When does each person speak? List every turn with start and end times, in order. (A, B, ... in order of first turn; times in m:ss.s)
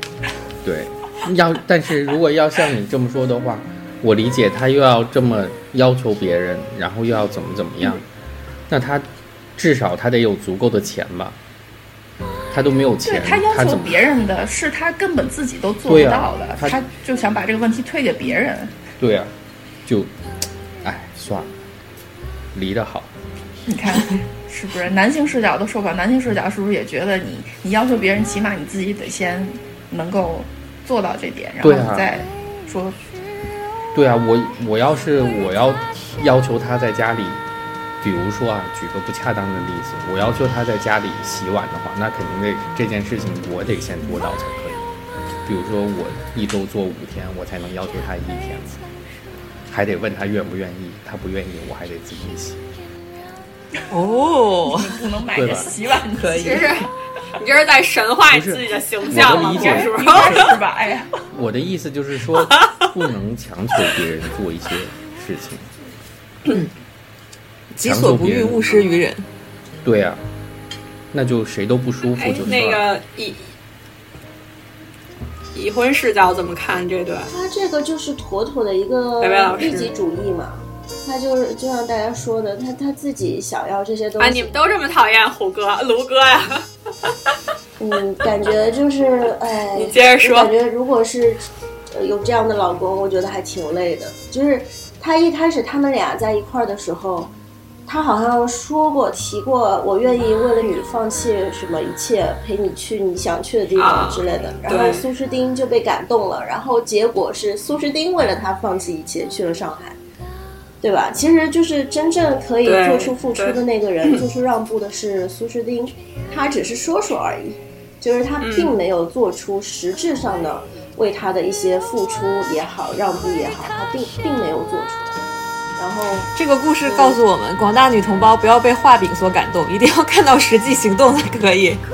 0:00.6-0:08.0 A
0:08.7-0:11.4 A
0:12.5-0:14.0 A
0:13.0-0:18.8 B
0:15.9-0:16.8 A
0:19.0-0:19.3 A
0:19.8-0:20.1 A
0:20.8-0:21.5 A
0:22.5-0:23.1 A
0:23.7-0:33.0 B
0:31.6-0:32.1 A
0:33.9-0:37.4 A
0:38.0-0:44.8 A
0:45.4-0:48.8 A
0:49.7-0:52.6 A
0:53.9-0:54.9 C
0:54.7-0:56.7 B
0:55.4-0:55.7 A
0:56.2-0:56.6 C
0:56.4-1:00.6 D
0:58.3-1:00.5 A
0:59.3-1:01.1 B
1:01.3-1:05.7 A
1:02.5-1:02.9 D
1:07.8-1:09.2 C
1:07.8-1:08.9 A
1:09.8-1:10.2 A
1:11.1-1:12.8 A
1:12.2-1:13.6 D
1:15.5-1:17.3 D
1:17.3-1:24.5 E
1:19.2-1:19.9 D
1:24.2-1:26.7 D
1:27.8-1:37.3 E
1:29.7-1:30.5 D
1:37.9-1:50.0 E
1:43.8-1:45.0 D
1:50.8-2:05.2 E
1:52.6-1:54.2 D
1:58.4-1:58.8 D
2:05.8-2:06.3 E
2:06.4-2:11.8 C